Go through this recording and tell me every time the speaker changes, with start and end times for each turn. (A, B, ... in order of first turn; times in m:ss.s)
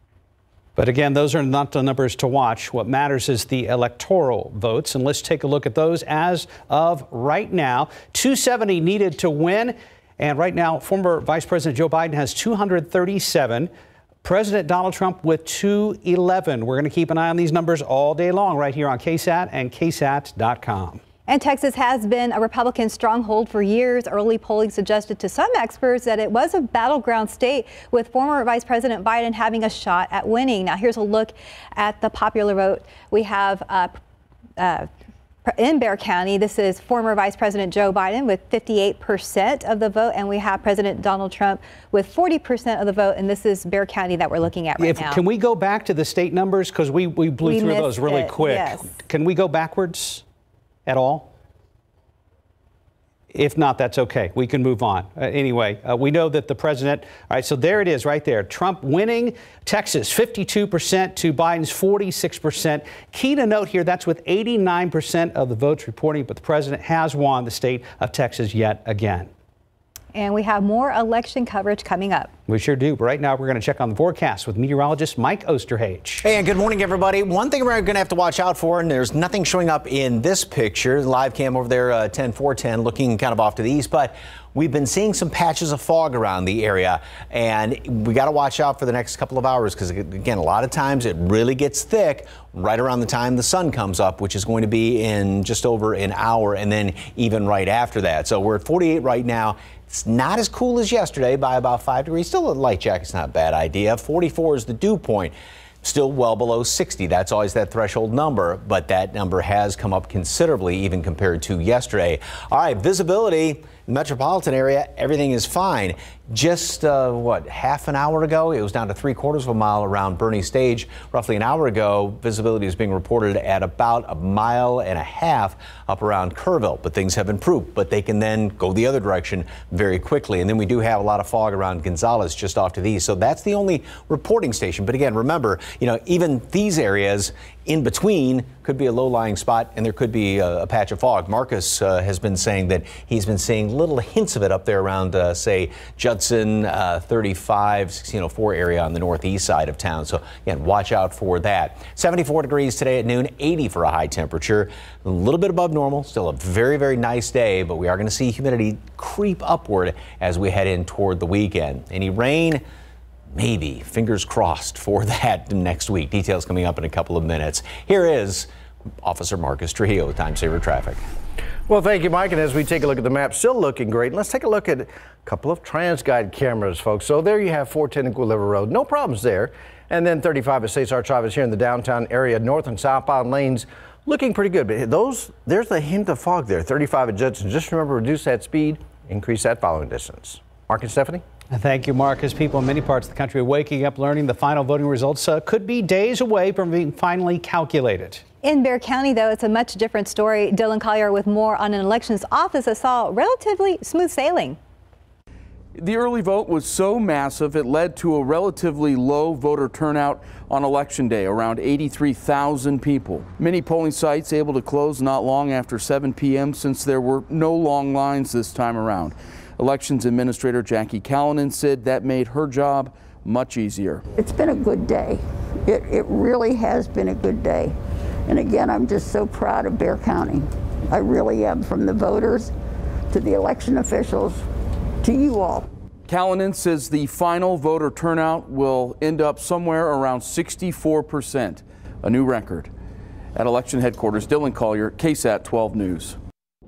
0:00.8-0:13.7 A
0:14.2-0:21.0 A
0:21.3-0:34.0 B
0:34.6-0:34.9 B
0:35.4-0:45.2 B
0:44.8-0:50.2 A
0:47.4-0:48.9 B
0:50.8-0:51.3 A
0:53.3-1:09.3 A
1:10.1-1:12.3 B
1:12.5-1:16.2 A
1:16.2-2:42.6 C
2:43.3-2:48.5 C
2:49.0-2:51.0 C
2:51.7-3:11.2 D
3:11.5-3:18.2 A
3:18.4-3:24.6 B
3:25.8-3:44.0 E
3:44.2-3:47.7 F
3:48.3-3:52.5 F
3:53.1-3:54.4 F
3:55.0-3:55.7 F
3:56.1-4:02.7 E
4:03.3-4:06.2 E